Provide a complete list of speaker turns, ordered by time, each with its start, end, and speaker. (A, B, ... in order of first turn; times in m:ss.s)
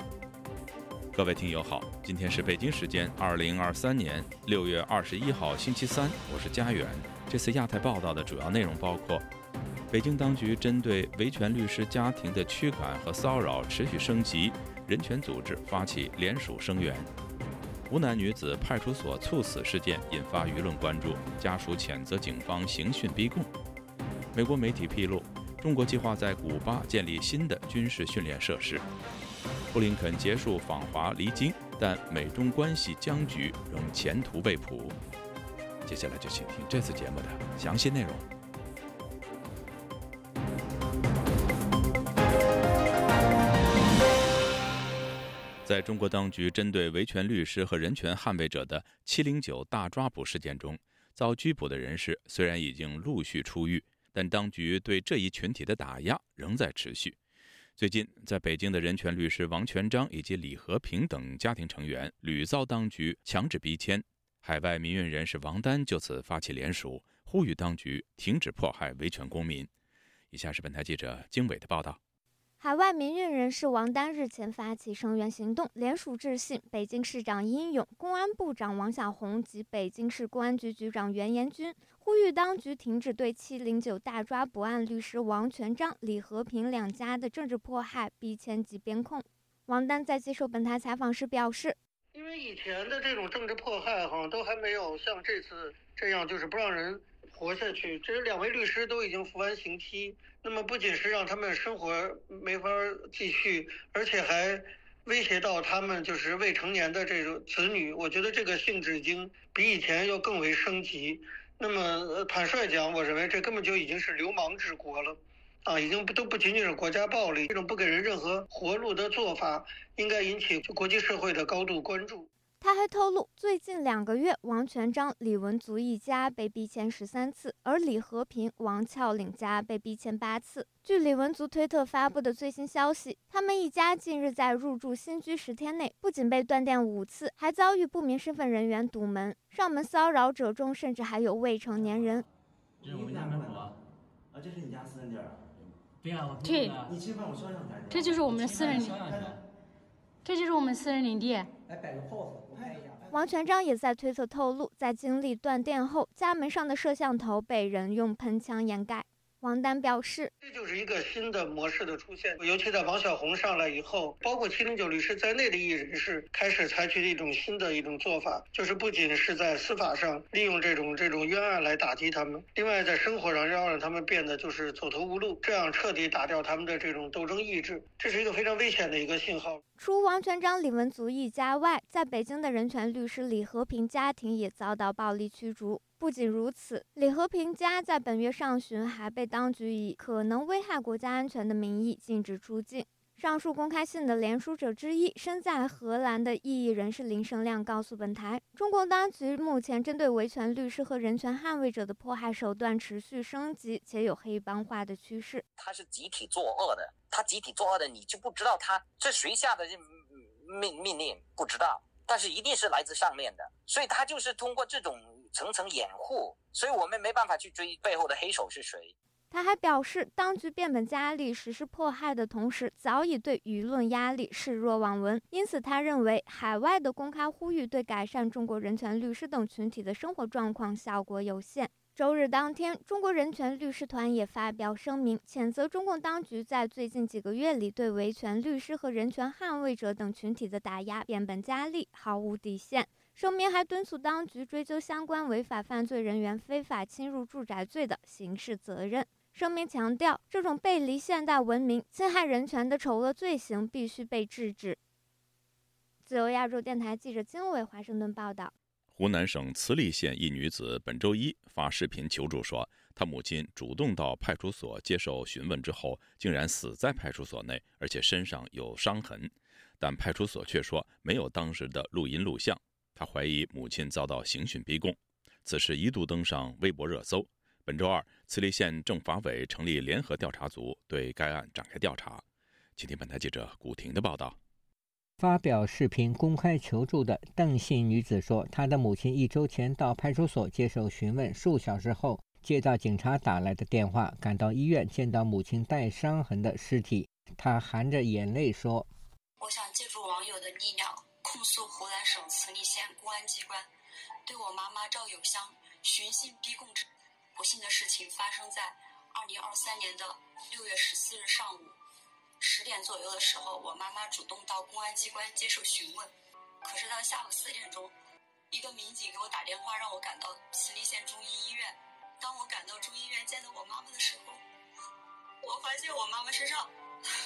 0:01.1-0:09.2 A
0:09.9-0:17.1 A
0:17.9-0:23.5 A
0:24.3-0:28.8 A
0:29.7-0:35.0 A
0:35.8-0:38.2 A
0:45.6-0:57.2 A
0:57.8-1:09.7 A
1:10.3-1:12.0 A
1:12.6-1:31.8 B
1:32.1-2:02.3 C
2:02.6-2:22.2 B
2:22.8-2:23.8 D
2:24.3-2:25.5 D
2:26.4-2:26.8 E
2:26.8-2:29.4 D
2:27.9-2:29.0 E
2:30.2-2:31.5 E
2:32.2-2:32.8 D
2:33.1-2:40.3 B
2:40.4-2:59.6 C
2:59.8-3:25.4 B
3:25.6-3:29.9 F
3:30.4-3:38.9 F
3:39.3-4:14.8 B
4:16.0-4:18.5 B
4:18.9-4:42.2 A
4:42.8-4:44.4 A
4:45.2-4:58.9 G
4:59.4-5:03.7 H
5:04.2-5:11.7 H
5:12.4-5:16.1 H
5:16.6-5:17.9 H
5:18.5-5:24.4 H
5:25.4-5:26.7 H